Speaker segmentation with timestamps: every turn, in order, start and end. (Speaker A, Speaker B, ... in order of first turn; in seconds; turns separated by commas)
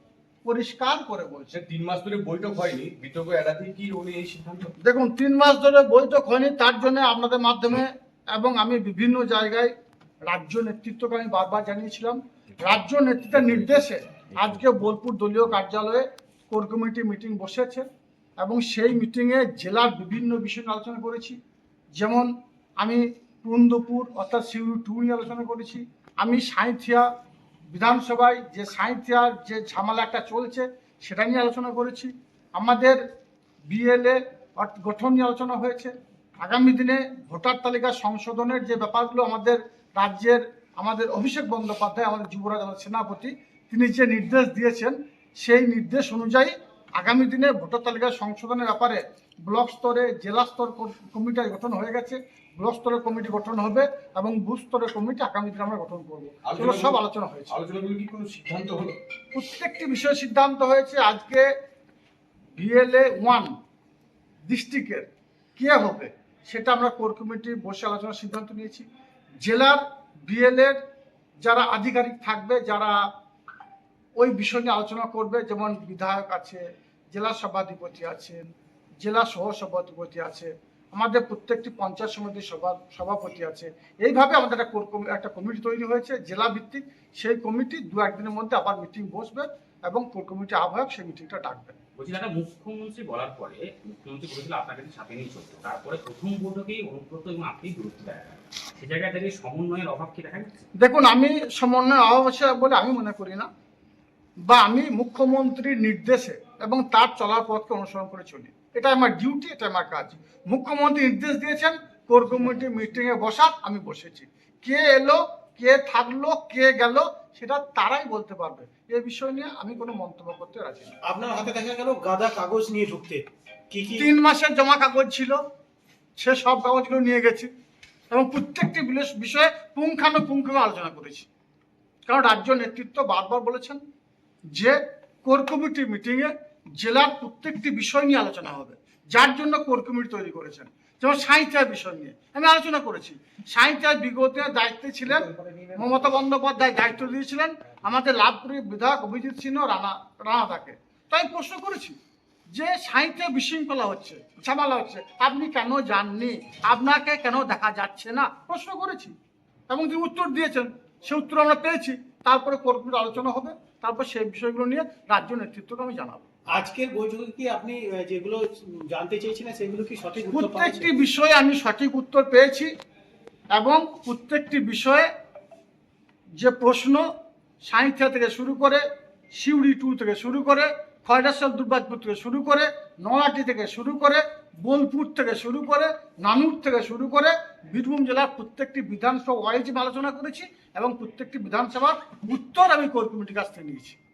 Speaker A: 0.4-1.5, Speaker B: 1.5-4.7, Speaker A: 4.8-9.7, Speaker A: 10.2-17.9, Speaker A: 18.4-21.4, Speaker A: 21.9-22.3, Speaker A: 22.8-27.1, Speaker A: 27.7-33.0, Speaker A: 33.7-57.5, Speaker B: 56.4-59.0, Speaker A: 59.3-61.5, Speaker A: 62.6-63.5, Speaker A: 64.5-65.1, Speaker A: 65.6-68.9, Speaker A: 69.4-70.8, Speaker A: 71.4-72.9, Speaker A: 74.2-78.4, Speaker A: 79.0-91.7, Speaker C: 92.0-100.5, Speaker A: 100.8-103.5, Speaker A: 104.4-120.9, Speaker D: 121.0-124.1, Speaker A: 124.0-125.4, Speaker A: 126.2-127.5, Speaker A: 128.1-131.3, Speaker A: 132.1-133.8, Speaker A: 134.5-151.9, Speaker D: 145.1-146.2, Speaker A: 152.5-159.2, Speaker A: 159.7-166.2, Speaker D: 166.5-170.9, Speaker A: 170.3-172.7, Speaker A: 173.6-175.1, Speaker A: 176.4-177.0, Speaker A: 177.6-178.8, Speaker A: 179.3-194.0